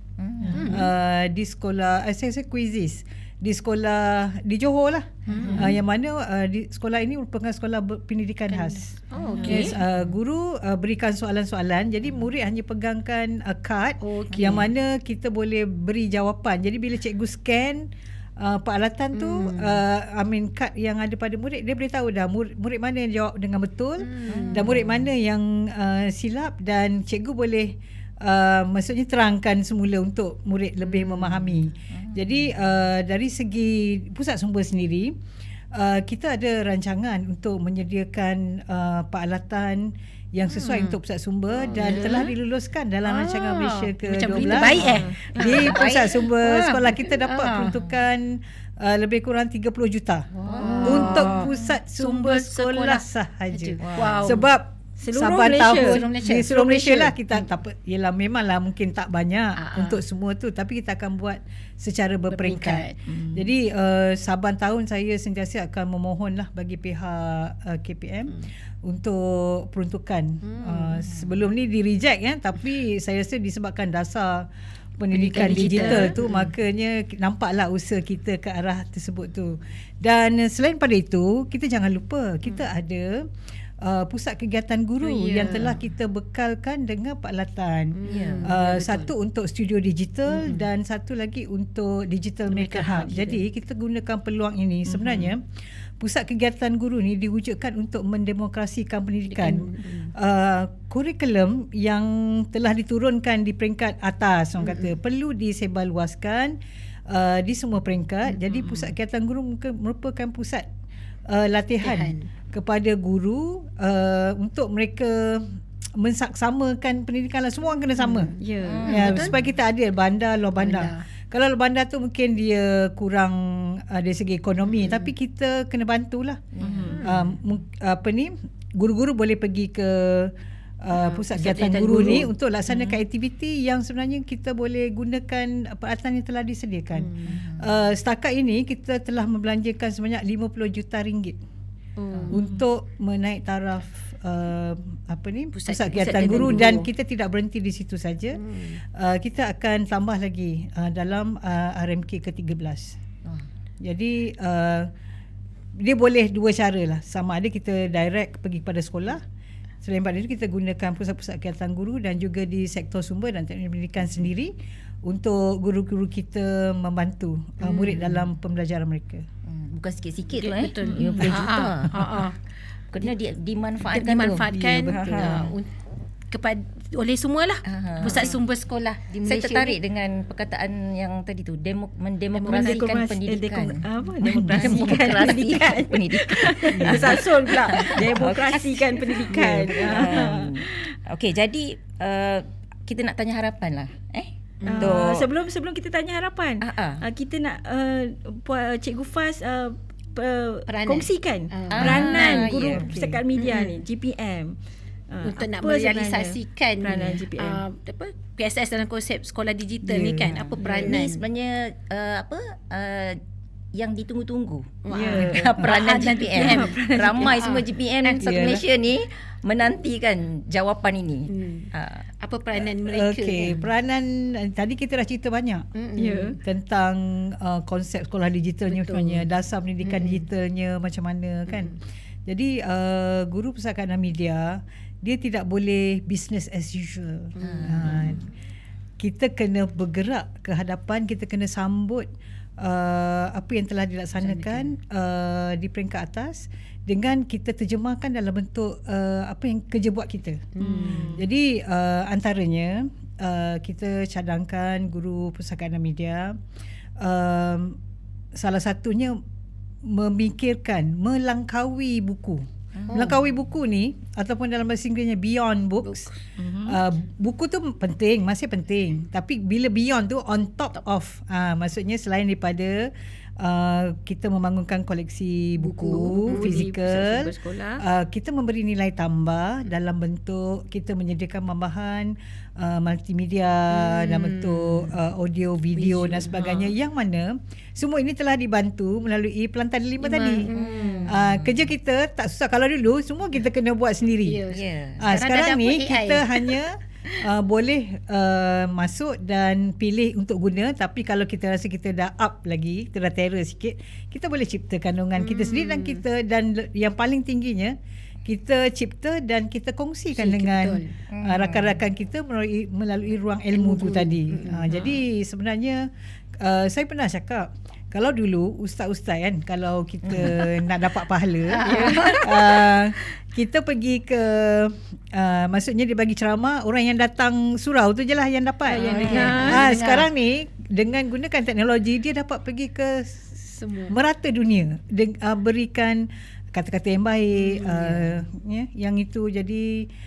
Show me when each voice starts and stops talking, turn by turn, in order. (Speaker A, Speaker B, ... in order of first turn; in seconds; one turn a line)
Speaker A: 0.2-0.8
Speaker B: 0.4-35.1
Speaker C: 0.5-0.9
Speaker A: 5.3-5.7
Speaker C: 5.3-5.8
Speaker C: 8.5-9.8
Speaker A: 9.1-10.1
Speaker D: 9.4-9.8
Speaker C: 14.0-14.7
Speaker A: 14.3-14.6
Speaker C: 19.1-19.8
Speaker C: 24.0-24.8
Speaker A: 24.3-25.1
Speaker C: 30.9-31.6
Speaker A: 31.9-32.5
Speaker B: 35.7-50.3
Speaker C: 40.5-41.0
Speaker C: 41.5-42.3
Speaker D: 41.8-42.3
Speaker C: 43.1-47.8
Speaker D: 44.3-45.6
Speaker A: 45.5-46.2
Speaker C: 50.3-54.5
Speaker A: 50.4-51.7
Speaker B: 50.8-74.5
Speaker A: 53.8-54.4
Speaker D: 55.0-56.6
Speaker C: 55.6-57.5
Speaker C: 59.6-60.0
Speaker C: 62.3-63.0
Speaker D: 63.1-63.5
Speaker C: 70.4-71.1
Speaker B: 75.0-83.3
Speaker C: 75.1-76.5
Speaker D: 75.5-76.1
Speaker B: 83.8-95.4
Speaker C: 85.0-85.9
Speaker C: 88.0-89.1
Speaker A: 88.0-88.6
Speaker C: 90.3-90.7
Speaker C: 92.5-93.4
Speaker D: 94.9-95.3
Speaker B: 96.0-106.6
Speaker C: 99.3-100.1
Speaker C: 104.6-104.9
Speaker B: 107.1-110.7
Speaker C: 108.3-108.8
Speaker B: 111.3-118.3
Speaker C: 111.8-112.3
Speaker C: 118.0-119.4
Speaker D: 118.4-119.2
Speaker A: 118.6-119.4
Speaker B: 118.9-126.4
Speaker C: 120.6-121.0
Speaker C: 124.7-125.1
Speaker A: 126.5-127.1
Speaker D: 126.6-127.0
Speaker C: 126.8-127.3
Speaker B: 127.0-141.4
Speaker C: 130.9-132.3
Speaker D: 132.7-133.0
Speaker C: 136.9-137.4
Speaker A: 137.3-137.7
Speaker C: 142.0-142.4
Speaker B: 142.3-153.0
Speaker C: 145.5-146.9
Speaker D: 146.0-146.8
Speaker C: 148.3-148.8
Speaker B: 153.8-154.9
Speaker B: 155.8-159.2
Speaker B: 159.8-169.3
Speaker C: 167.6-168.2
Speaker A: 169.4-172.3
Speaker C: 170.4-172.4
Speaker D: 170.8-171.5
Speaker A: 172.9-175.5
Speaker C: 173.8-175.7
Speaker B: 174.5-175.5
Speaker C: 176.3-179.8
Speaker A: 177.7-178.3
Speaker D: 178.1-178.4
Speaker A: 179.2-195.3
Speaker C: 182.3-183.0
Speaker D: 182.4-190.7
Speaker B: 184.2-184.8
Speaker C: 184.6-184.9
Speaker B: 189.3-190.1
Speaker C: 194.6-195.1
Speaker D: 194.6-204.6
Speaker A: 196.6-197.1
Speaker C: 200.7-202.6
Speaker A: 201.7-202.9
Speaker B: 202.7-203.2
Speaker C: 203.4-203.8
Speaker D: 205.1-207.7
Speaker C: 205.2-211.2
Speaker B: 209.8-210.5
Speaker A: 210.2-213.2
Speaker D: 210.6-210.9
Speaker A: 213.7-222.1
Speaker C: 214.8-218.3
Speaker D: 214.9-217.5
Speaker B: 218.2-218.6
Speaker C: 221.3-223.7
Speaker B: 222.6-225.7
Speaker C: 225.8-226.4
Speaker D: 226.0-226.4
Speaker B: 226.4-238.2
Speaker C: 228.7-229.3
Speaker C: 229.8-230.3
Speaker C: 231.5-231.7
Speaker C: 237.4-238.3
Speaker A: 237.4-238.2
Speaker B: 239.0-256.4
Speaker C: 244.2-244.7
Speaker C: 250.6-251.2
Speaker D: 250.6-251.2
Speaker B: 257.0-257.8
Speaker B: 258.4-259.2
Speaker B: 259.8-266.1
Speaker A: 262.8-263.2
Speaker C: 262.9-263.2
Speaker C: 265.8-266.2
Speaker D: 266.4-266.8
Speaker B: 266.6-290.5
Speaker C: 275.6-276.6
Speaker D: 276.1-277.8
Speaker C: 283.7-284.9
Speaker C: 285.8-286.6
Speaker C: 290.0-291.1
Speaker A: 290.5-291.7
Speaker B: 291.1-294.4
Speaker C: 294.2-296.6
Speaker A: 294.5-295.0
Speaker B: 295.0-307.8
Speaker C: 305.2-306.0
Speaker B: 308.3-315.9
Speaker C: 310.1-310.9
Speaker A: 311.1-311.8
Speaker C: 313.5-314.7
Speaker D: 314.7-315.0
Speaker B: 316.4-339.9
Speaker C: 320.1-320.7
Speaker C: 321.5-322.8
Speaker D: 321.6-322.1
Speaker C: 328.7-330.1
Speaker D: 328.7-329.7
Speaker A: 329.0-329.5
Speaker C: 333.6-334.0
Speaker C: 337.4-338.2